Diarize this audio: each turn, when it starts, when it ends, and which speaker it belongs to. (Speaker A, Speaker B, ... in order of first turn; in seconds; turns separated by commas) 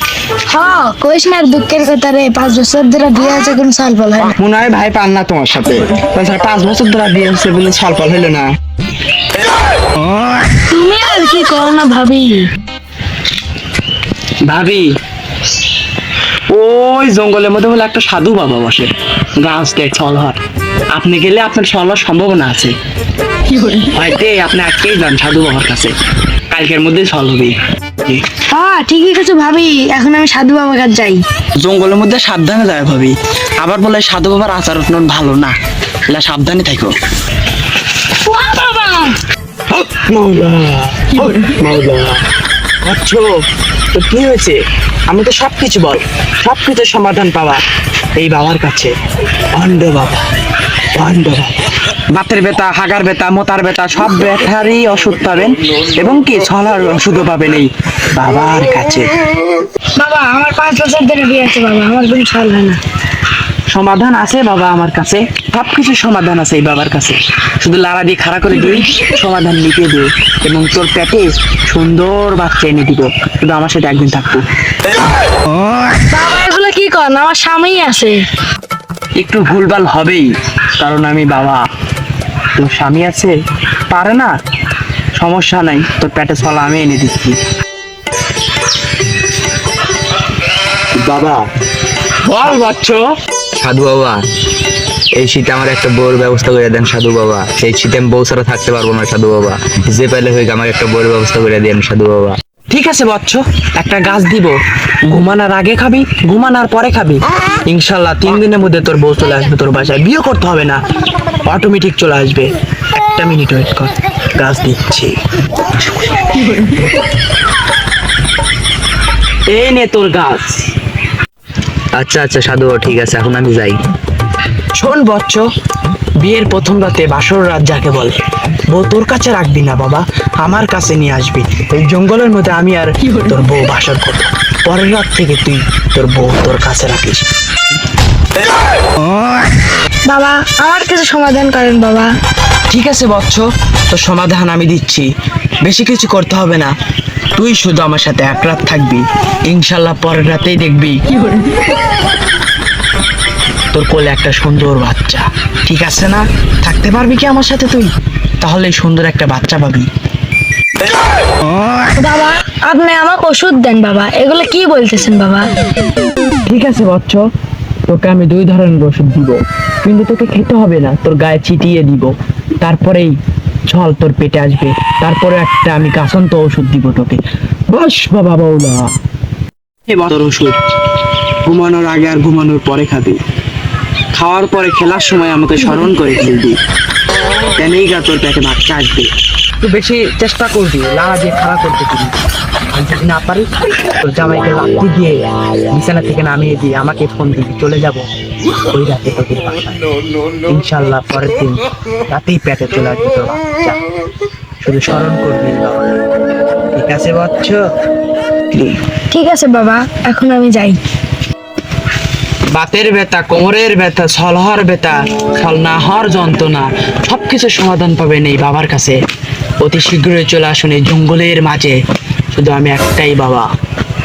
Speaker A: 0.5-4.4, Speaker B: 4.2-8.5, Speaker A: 10.7-12.5, Speaker B: 14.4-14.9, Speaker B: 16.5-20.4, Speaker B: 20.9-22.7, Speaker B: 23.8-25.9, Speaker B: 26.5-28.2, Speaker A: 28.5-31.2, Speaker B: 31.6-35.5, Speaker B: 36.1-37.0, Speaker A: 38.2-39.2, Speaker B: 39.7-42.2, Speaker B: 42.8-43.3, Speaker B: 43.9-47.6, Speaker B: 48.2-48.9, Speaker B: 49.5-50.2, Speaker B: 51.0-59.1, Speaker A: 60.0-62.8, Speaker B: 63.7-74.4, Speaker A: 76.1-78.2, Speaker B: 79.2-80.3, Speaker B: 80.8-81.6, Speaker B: 82.5-83.3, Speaker B: 83.9-84.3, Speaker B: 85.2-87.4, Speaker B: 91.0-91.4, Speaker B: 92.2-93.0, Speaker C: 93.6-94.2, Speaker C: 95.2-102.4, Speaker B: 102.7-110.8, Speaker B: 111.5-115.2, Speaker B: 115.9-116.9, Speaker B: 119.5-120.7, Speaker C: 122.0-123.8, Speaker B: 124.8-125.5, Speaker B: 126.2-137.3, Speaker A: 140.1-142.1, Speaker B: 142.7-145.1, Speaker B: 145.6-146.7, Speaker B: 147.3-151.3, Speaker B: 153.7-159.9, Speaker A: 162.0-165.5, Speaker B: 166.5-167.3, Speaker B: 167.9-173.2, Speaker B: 173.7-178.9, Speaker B: 179.9-180.6, Speaker B: 181.5-183.2, Speaker B: 184.1-186.6, Speaker B: 187.6-189.1, Speaker B: 189.6-192.2, Speaker B: 192.7-195.2, Speaker B: 195.7-198.0, Speaker B: 198.7-199.8, Speaker B: 200.5-203.8, Speaker B: 204.6-205.9, Speaker B: 206.7-207.6, Speaker A: 209.1-210.8, Speaker B: 212.5-219.0, Speaker B: 219.6-221.8, Speaker B: 222.3-223.5